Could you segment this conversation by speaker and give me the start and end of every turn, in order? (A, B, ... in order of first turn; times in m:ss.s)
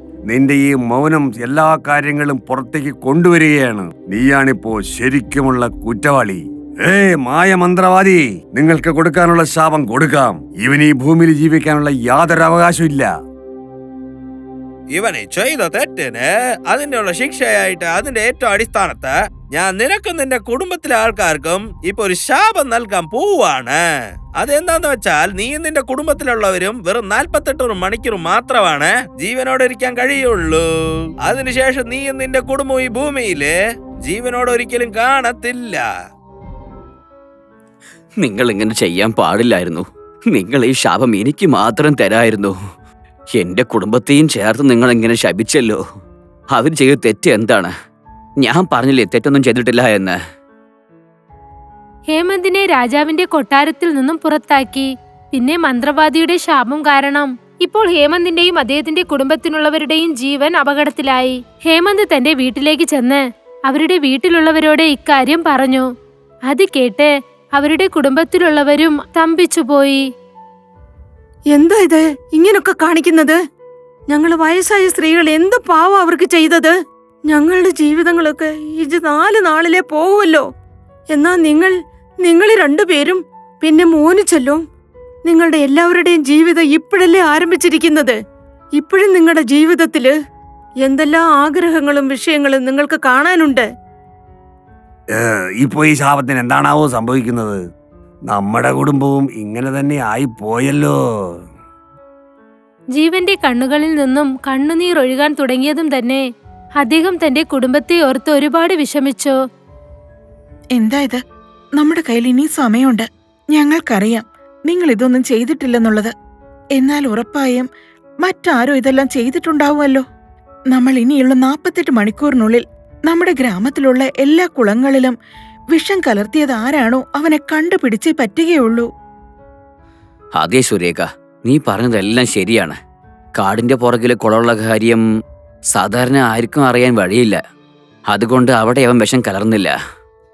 0:00.3-0:13.1 A
0:14.9-0:23.8 B
0:24.4-0:30.6 B
0:31.2-0:35.8 B
0:38.2-0:42.5 C
0:43.3-0:45.8 C
0:46.5-0:47.7 C
0:48.4-0:50.2 C
0:52.1-1:05.9 D
1:06.5-1:10.0 D
1:11.5-1:13.4 E
1:14.1-1:16.7 E
1:17.3-1:20.4 E
1:21.1-1:21.7 E
1:22.2-1:24.6 E
1:25.2-1:28.2 E
1:28.8-1:30.1 E
1:30.8-1:33.7 E
1:35.2-1:37.6 A
1:38.3-1:40.9 A
1:42.9-1:46.2 D
1:46.8-1:49.3 D
1:50.7-1:51.2 F
1:51.7-1:56.1 F
1:56.7-1:57.7 F
1:58.2-2:00.0 F
2:00.7-2:05.2 F
2:05.7-2:08.9 F
2:10.4-2:12.8 C
2:13.4-2:15.0 C
2:15.7-2:17.4 C
2:18.1-2:19.7 C